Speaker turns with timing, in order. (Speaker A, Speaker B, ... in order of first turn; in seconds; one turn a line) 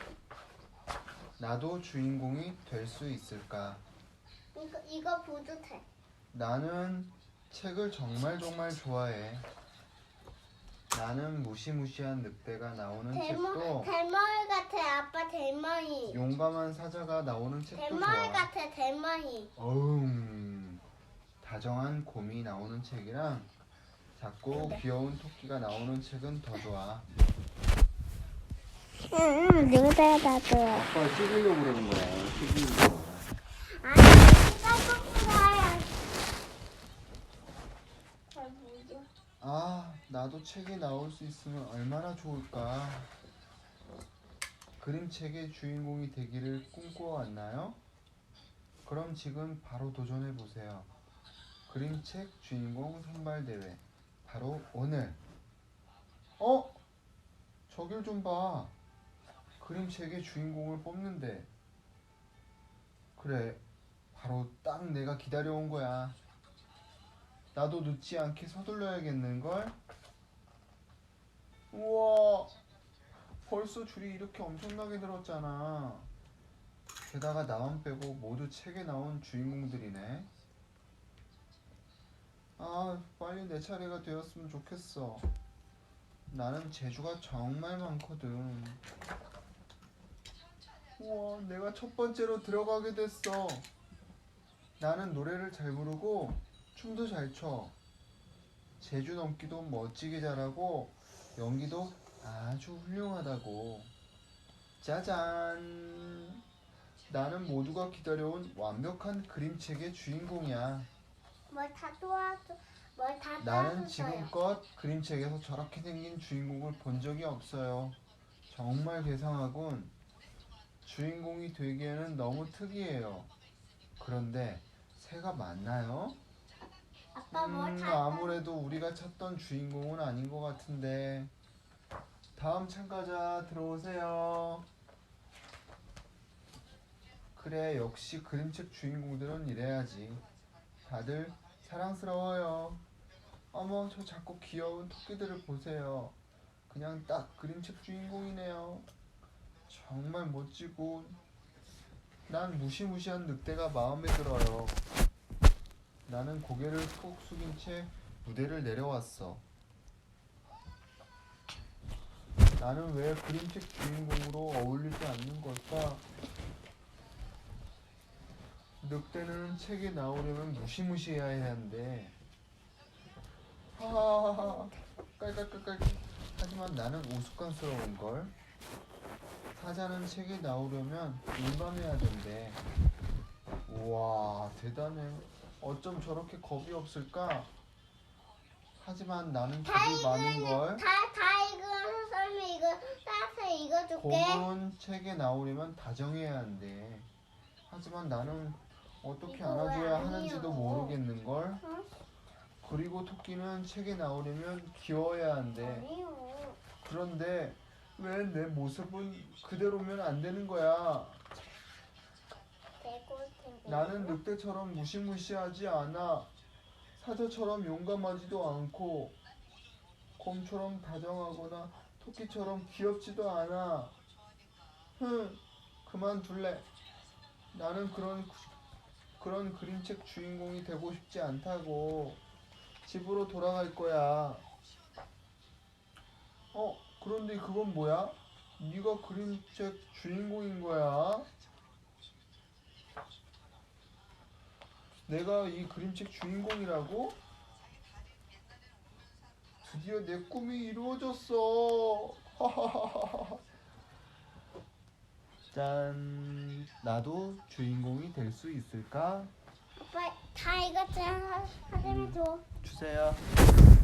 Speaker A: 1.4-3.8
Speaker B: 4.5-5.8
Speaker A: 6.3-9.4
Speaker A: 10.9-13.9
Speaker B: 13.1-16.2
Speaker A: 16.1-18.5
Speaker B: 17.7-19.5
Speaker A: 19.6-20.8
Speaker A: 21.4-23.5
Speaker A: 24.2-27.1
Speaker B: 24.5-24.8
Speaker B: 29.1-30.9
Speaker A: 30.7-33.4
Speaker B: 33.8-35.9
Speaker B: 38.3-39.1
Speaker A: 39.4-43.1
Speaker A: 44.8-47.8
Speaker A: 48.9-50.9
Speaker A: 51.7-55.2
Speaker A: 56.4-56.8
Speaker A: 57.7-58.7
Speaker A: 59.6-61.5
Speaker A: 63.2-63.6
Speaker A: 64.1-66.2
Speaker A: 67.5-69.8
Speaker A: 71.7-72.5
Speaker A: 73.4-76.1
Speaker A: 77.1-80.3
Speaker A: 82.6-85.3
Speaker A: 86.3-88.8
Speaker A: 91.0-93.7
Speaker A: 94.8-97.7
Speaker A: 98.8-103.9
Speaker A: 104.8-106.4
Speaker A: 107.1-110.9
Speaker B: 111.5-114.3
Speaker A: 113.4-118.0
Speaker A: 118.5-119.9
Speaker A: 120.8-123.3
Speaker A: 124.0-126.2
Speaker B: 127.2-128.4
Speaker A: 127.3-131.3
Speaker A: 132.3-134.7
Speaker A: 137.4-140.2
Speaker A: 140.8-142.8
Speaker A: 143.5-146.2
Speaker A: 146.7-148.9
Speaker A: 149.7-151.2
Speaker A: 152.3-154.9
Speaker A: 156.1-159.4
Speaker A: 162.6-166.0
Speaker A: 168.8-172.2
Speaker A: 173.8-178.3
Speaker B: 174.4-174.8
Speaker A: 179.6-182.6
Speaker A: 183.7-187.5
Speaker A: 188.8-190.8
Speaker B: 189.6-194.5
Speaker A: 194.0-197.1
Speaker A: 197.7-201.6
Speaker B: 199.3-201.0
Speaker B: 201.6-201.9
Speaker A: 202.6-205.9
Speaker B: 205.6-206.6
Speaker A: 206.8-211.4
Speaker B: 212.8-214.2
Speaker A: 213.7-216.3
Speaker A: 217.0-219.2
Speaker A: 220.2-223.9
Speaker A: 225.0-226.7
Speaker A: 227.5-228.5
Speaker A: 229.2-232.2
Speaker A: 232.8-234.4
Speaker A: 236.5-241.3
Speaker A: 245.1-247.2
Speaker A: 249.6-253.4
Speaker A: 255.5-259.3
Speaker B: 259.8-262.4
Speaker A: 261.8-263.3